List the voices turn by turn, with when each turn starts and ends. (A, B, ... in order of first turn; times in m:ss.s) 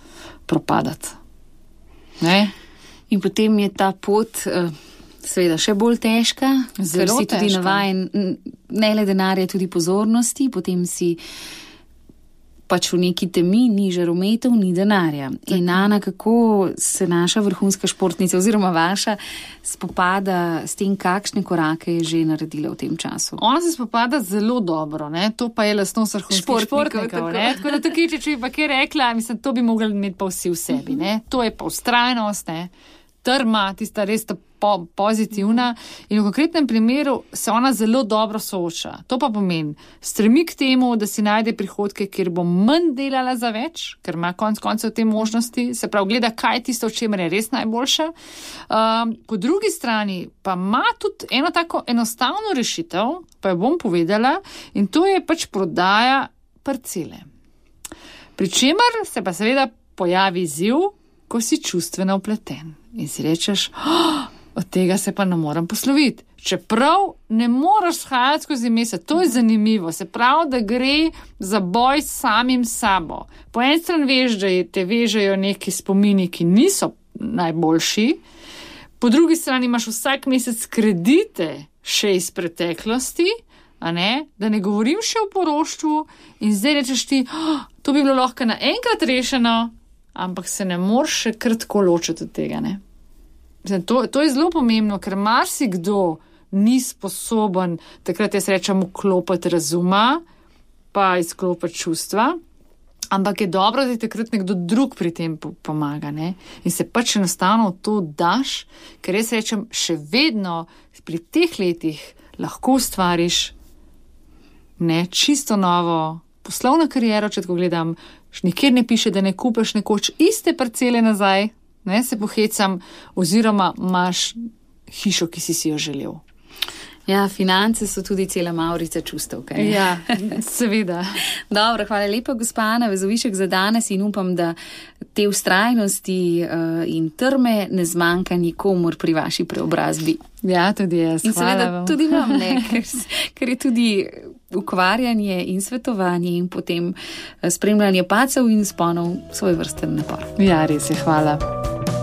0:00.5-0:01.2 A
0:02.2-0:02.5 A
0:03.1-0:11.2 B
0:06.8-0:07.8 A
0:12.7-0:23.4 B
0:15.5-0:15.8 A
0:23.4-0:32.7 A
0:26.3-0:27.8 B
0:33.2-0:48.1 A
0:48.7-0:57.2 A
0:58.4-1:18.2 A
1:19.0-1:32.8 A
1:33.6-1:40.2 A
1:40.9-1:42.4 A
1:43.1-1:53.5 A
1:54.8-2:06.2 A
2:07.1-2:10.0 B
2:09.6-2:11.1 A
2:11.5-2:14.6 B
2:15.1-2:20.2 B
2:20.4-2:22.6 A
2:21.2-2:30.3 B
2:30.4-2:31.4 A